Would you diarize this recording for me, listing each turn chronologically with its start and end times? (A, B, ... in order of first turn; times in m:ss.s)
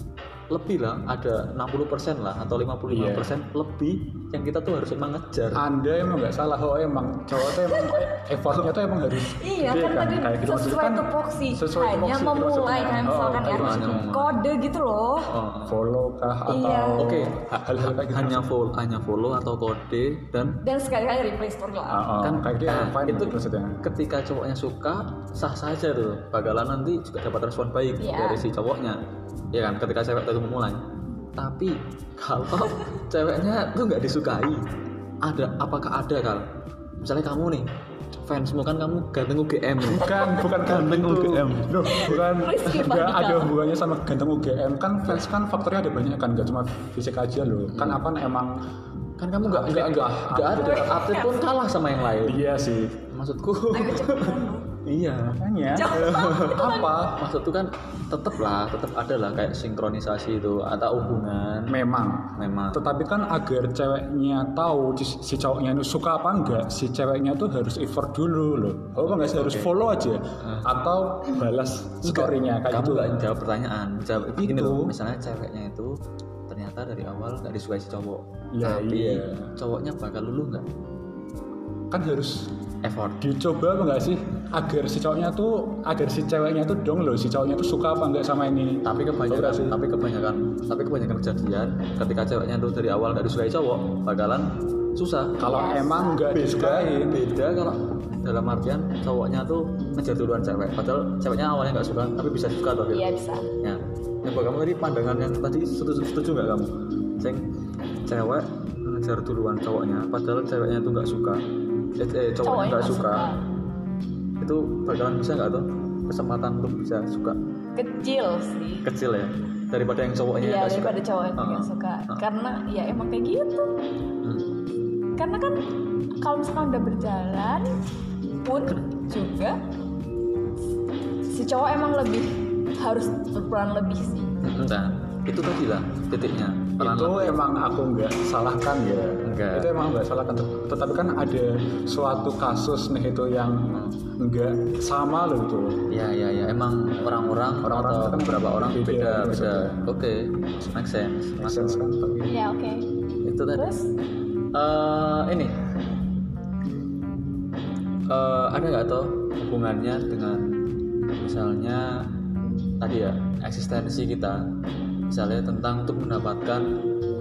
0:00.5-0:05.6 A
0:02.9-0:03.3 B
0:05.5-0:14.2 B
0:07.4-0:08.2 C
0:09.3-0:15.3 C
0:13.5-0:14.4 A
0:15.3-0:15.8 A
0:15.7-0:18.5 B
0:16.5-0:17.1 C
0:17.0-0:20.6 A
0:20.6-0:22.1 C
0:21.9-0:23.8 B
0:22.2-0:29.0 A
0:28.0-0:28.4 C
0:29.5-0:30.8 A
0:31.4-0:34.7 A
0:35.2-0:36.4 A
0:37.0-0:42.2 A
0:39.9-0:48.5 B
0:40.0-0:40.4 C
0:41.9-0:43.6 C
0:47.7-0:48.0 A
0:49.2-0:52.4 A
0:49.4-0:50.9 B
0:50.4-0:51.5 C
0:52.2-0:53.0 B
0:53.1-0:55.4 A
0:53.7-0:54.7 C
0:55.4-0:57.2 B
0:55.7-0:57.0 C
0:55.9-1:01.8 A
1:01.7-1:13.2 B
1:02.4-1:02.8 A
1:09.0-1:09.7 A
1:10.4-1:10.7 A
1:12.0-1:20.7 A
1:14.4-1:14.9 B
1:18.5-1:19.5 B
1:21.9-1:22.5 B
1:22.8-1:23.2 A
1:23.2-1:29.8 B
1:28.8-1:35.4 A
1:35.4-1:37.2 B
1:35.4-1:36.2 C
1:36.3-1:43.0 A
1:42.9-1:43.5 C
1:43.6-1:47.5 A
1:48.1-1:51.4 A
1:52.0-1:53.3 A
1:52.4-1:53.4 C
1:54.4-1:57.4 A
1:57.8-1:58.9 C
1:58.8-2:02.2 A
2:00.4-2:03.8 C
2:04.2-2:04.5 A
2:05.2-2:05.6 C
2:06.2-2:07.8 C
2:08.4-2:09.6 C
2:11.3-2:14.3 C
2:14.4-2:17.4 A
2:16.8-2:25.8 B
2:19.2-2:19.7 A
2:25.9-2:31.8 A
2:27.6-2:29.9 B
2:31.4-2:32.4 B
2:32.3-2:32.9 C
2:33.2-2:33.8 A
2:33.6-2:33.9 C
2:34.5-2:35.6 A
2:38.1-2:40.6 A
2:41.2-2:42.1 A
2:42.8-2:44.4 A
2:45.1-2:46.8 A